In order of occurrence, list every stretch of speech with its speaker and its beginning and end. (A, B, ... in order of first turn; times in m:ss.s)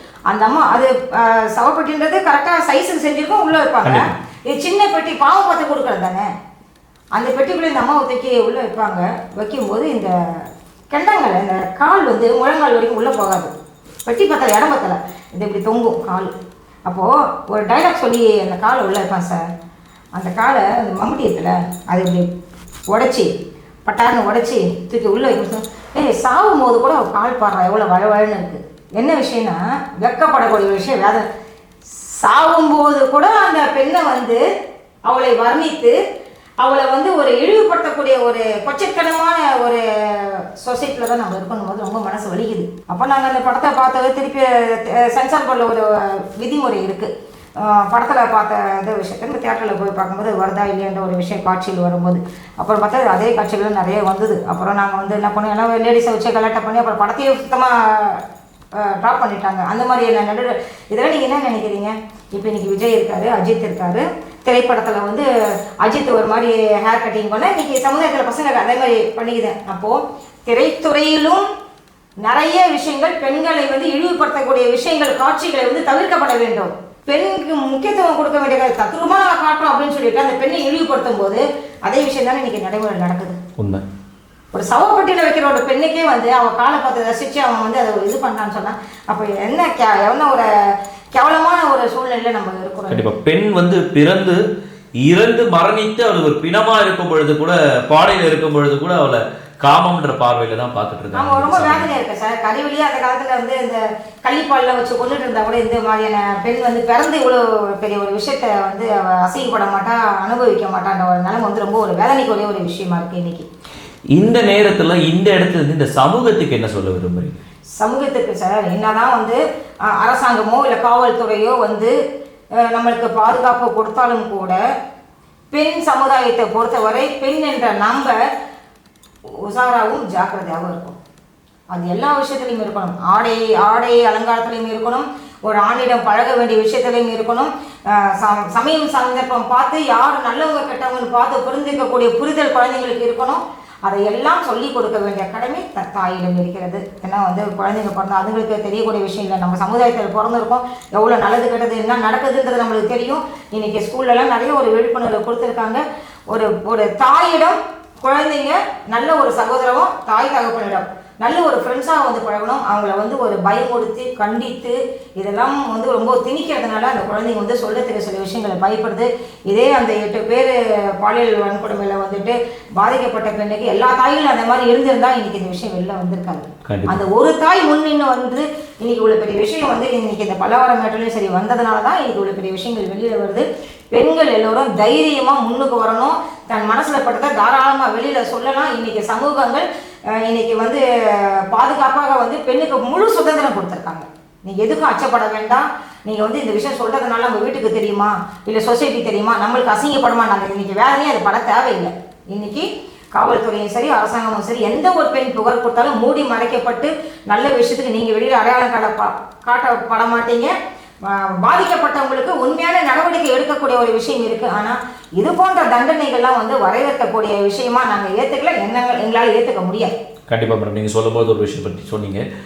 0:00.3-0:06.3 A
0:03.8-0:04.1 B
0:07.2-0:10.1 A
0:10.9-0:13.5 A
0:14.0-0:16.3 A
0:16.9-0:19.4 A
0:20.2-0:22.3 A
0:22.9-0:23.3 A
0:23.9-0:31.2 A
0:32.2-0:34.4 A
0:35.1-0:36.0 A
0:36.6-0:47.1 A
0:47.6-0:58.2 A
0:58.8-1:05.3 A
1:05.8-1:11.5 A
1:12.3-1:23.4 A
1:23.6-1:23.8 B
1:24.5-1:30.5 A
1:31.2-1:33.1 A
1:32.9-1:34.4 B
1:35.0-1:41.9 B
1:41.1-1:53.5 A
1:54.2-1:57.4 B
1:57.8-2:02.0 A
2:02.6-2:04.6 A
2:05.5-2:08.2 A
2:09.5-2:11.0 A
2:11.7-3:30.5 A
2:56.7-2:57.0 B
3:31.0-3:39.9 A
3:40.3-3:42.2 B